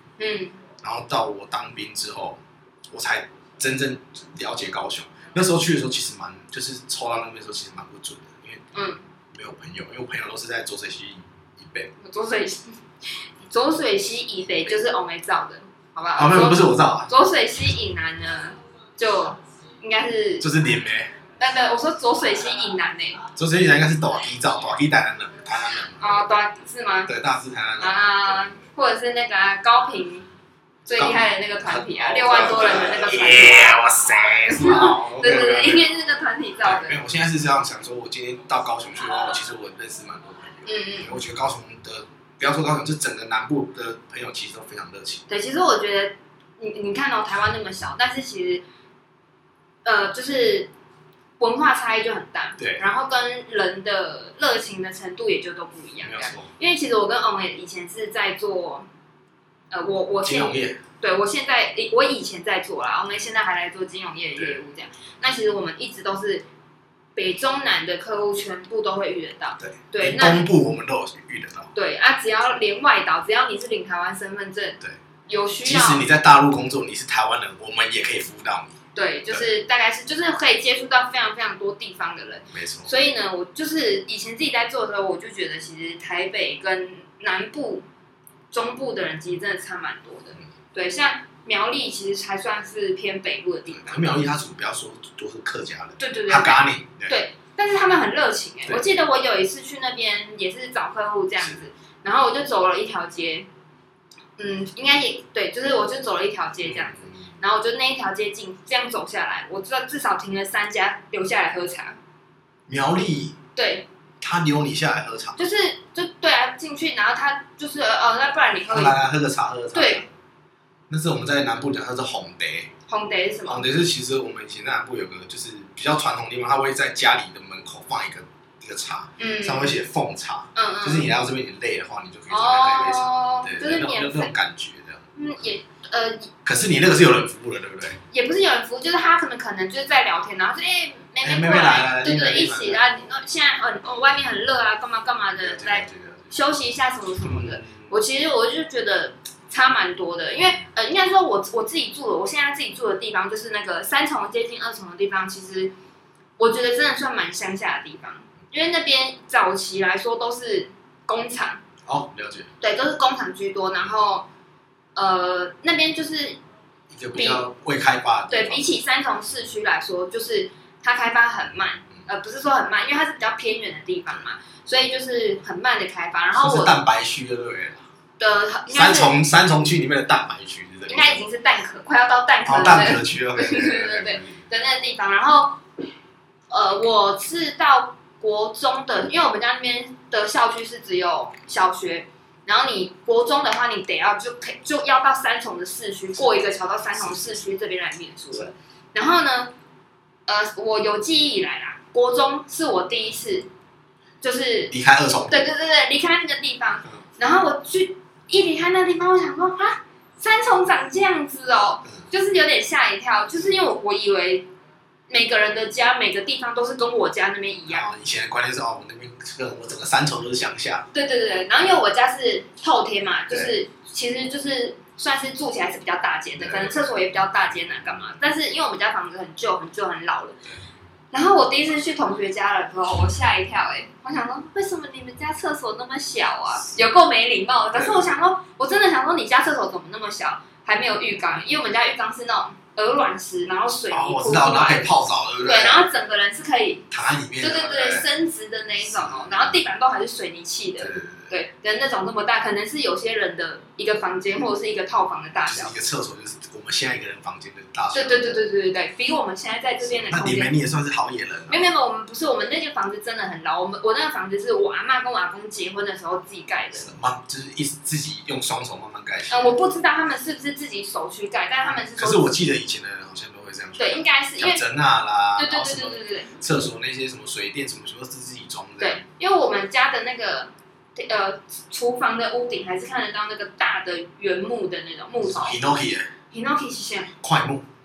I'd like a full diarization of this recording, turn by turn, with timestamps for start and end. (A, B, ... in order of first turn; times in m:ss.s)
0:00.2-0:00.6 A
0:00.8-0:08.6 B
0:08.7-0:09.1 A
0:09.3-0:11.9 B
0:12.0-0:20.5 A
0:16.2-0:17.1 B
0:20.4-0:21.2 B
0:21.4-0:23.2 A
0:23.4-0:26.2 B
0:26.0-0:27.1 A
0:27.1-0:28.6 B
0:27.8-0:30.3 A
0:30.9-0:33.8 A
0:31.0-0:35.8 B
0:34.5-0:37.0 A
0:36.6-0:45.2 B
0:40.7-0:41.2 A
0:45.3-0:48.6 A
0:49.8-0:50.7 A
0:51.4-0:58.9 A
0:52.6-0:52.8 B
0:56.0-0:56.5 B
0:59.7-1:06.4 A
1:00.2-1:00.8 B
1:07.2-1:10.5 A
1:09.6-1:11.7 B
1:11.8-1:16.0 A
1:15.6-1:18.8 B
1:19.0-1:27.8 A
1:22.5-1:22.9 B
1:28.5-1:34.2 A
1:33.7-1:37.2 B
1:36.0-1:43.5 A
1:44.4-1:52.0 A
1:46.6-1:47.3 B
1:52.7-1:53.4 B
1:53.6-1:53.9 A
1:54.2-1:55.4 B
1:55.4-1:59.0 A
1:58.7-2:00.1 B
1:59.7-2:00.1 A
2:00.9-2:02.7 B
2:02.9-2:03.7 A
2:03.5-2:15.1 B
2:09.2-2:09.8 A
2:10.6-2:11.1 A
2:12.3-2:14.3 A
2:15.2-2:16.3 A
2:16.4-2:18.0 B
2:18.1-2:35.7 A
2:21.2-2:22.9 B
2:25.4-2:26.4 B
2:27.2-2:27.9 B
2:36.4-2:41.6 A
2:41.8-2:42.5 B
2:42.6-2:44.3 A
2:45.0-2:46.4 A
2:46.9-2:48.7 B
2:47.2-2:47.5 A
2:48.3-2:56.7 A
2:56.3-2:57.9 B
2:58.2-2:59.2 A
2:58.7-3:01.2 B
3:00.9-3:05.6 A
3:02.4-3:04.4 B
3:06.5-3:19.5 A
3:17.0-3:17.4 B
3:20.3-3:23.5 A
3:24.2-3:24.7 A
3:24.7-3:25.5 B
3:25.3-3:34.5 A
3:35.1-3:37.9 A
3:37.7-3:40.9 B
3:40.9-3:50.4 A
3:43.3-3:43.6 B
3:46.4-3:46.8 B
3:47.5-3:48.2 B
3:51.1-4:04.9 A
3:57.7-3:58.1 B
4:03.9-4:05.9 B
4:05.4-4:06.9 A
4:06.9-4:08.1 B
4:07.4-4:15.7 A
4:08.8-4:09.6 B
4:10.8-4:11.4 B
4:15.5-4:18.4 B
4:17.9-4:20.5 A
4:19.8-4:21.6 B
4:21.5-4:26.9 A
4:26.8-4:29.5 B
4:29.3-4:32.4 A
4:31.7-4:39.0 B
4:33.8-4:34.6 A
4:35.4-4:36.4 A
4:38.8-4:45.6 A
4:45.2-4:46.1 B
4:46.3-4:47.1 A
4:47.2-4:47.7 B